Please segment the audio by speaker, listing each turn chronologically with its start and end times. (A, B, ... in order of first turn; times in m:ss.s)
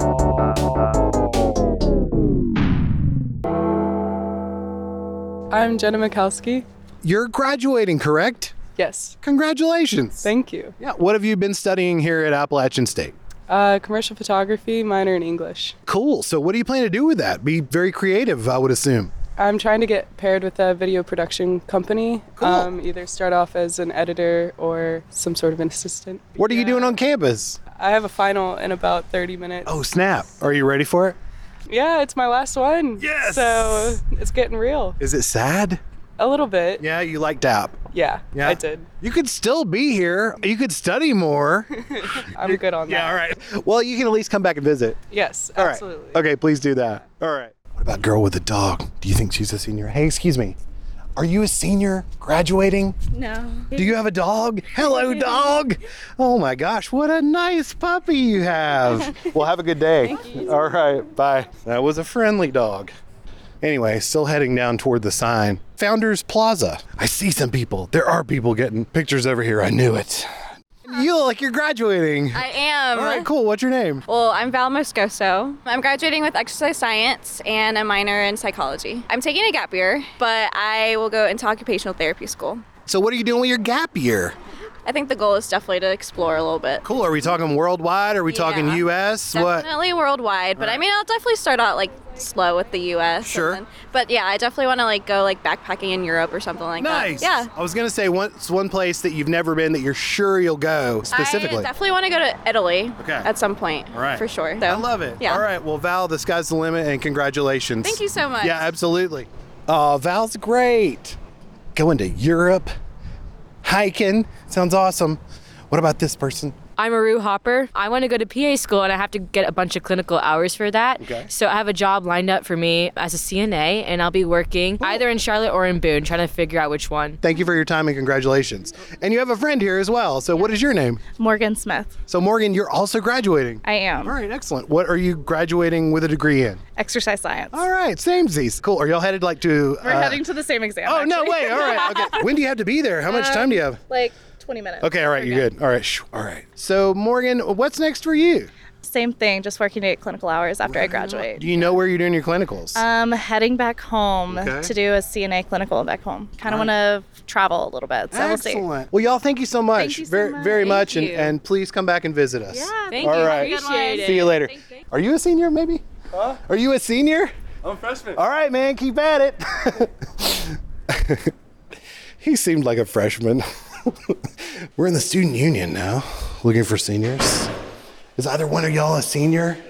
0:06.3-0:06.6 A
0:07.0-0:08.5 B
0:08.8-0:09.1 A
0:09.2-0:10.3 B
0:10.3-0:10.7 A
0:10.8-0:13.1 B
0:13.6-0:14.8 A
0:15.4-0:15.7 A
0:15.8-0:19.1 B
0:19.6-0:26.4 A
0:22.4-0:22.7 B
0:26.4-0:27.6 B
0:27.8-0:29.6 A
0:29.6-0:31.2 B
0:31.7-0:34.9 A
0:33.0-0:34.0 B
0:35.0-0:35.8 B
0:36.2-0:36.7 A
0:36.8-0:37.8 B
0:37.9-0:38.8 A
0:38.3-0:45.0 B
0:42.7-0:43.0 A
0:45.1-0:46.1 A
0:45.5-0:50.6 B
0:51.2-0:53.0 B
0:53.1-0:53.7 C
0:53.7-1:02.9 B
1:00.0-1:00.6 D
1:03.6-1:10.3 B
1:10.9-1:14.0 B
1:12.3-1:13.3 D
1:14.1-1:22.6 D
1:22.9-1:24.4 B
1:24.8-1:26.8 D
1:26.8-1:29.7 B
1:28.2-1:37.5 D
1:30.6-1:30.8 B
1:33.2-1:33.6 B
1:36.8-1:41.7 B
1:41.1-1:45.4 D
1:43.0-1:43.3 B
1:43.9-1:51.2 B
1:47.8-1:48.7 D
1:51.7-1:52.7 B
1:53.6-1:56.6 B
1:56.8-2:07.2 E
2:01.0-2:01.3 B
2:07.2-2:11.0 B
2:11.2-2:11.9 C
2:12.1-2:16.6 B
2:13.6-2:14.1 C
2:16.8-2:17.7 C
2:17.5-2:20.2 B
2:19.8-2:21.8 C
2:20.8-2:23.8 B
2:23.1-2:25.4 C
2:24.8-2:28.5 B
2:28.8-2:31.7 C
2:30.6-2:32.8 B
2:32.7-2:38.6 C
2:34.3-2:34.7 B
2:36.4-2:36.7 B
2:38.1-2:51.3 B
2:39.8-2:41.2 C
2:42.8-2:44.5 E
2:52.2-2:53.9 B
2:54.8-2:57.5 B
2:58.2-2:59.6 B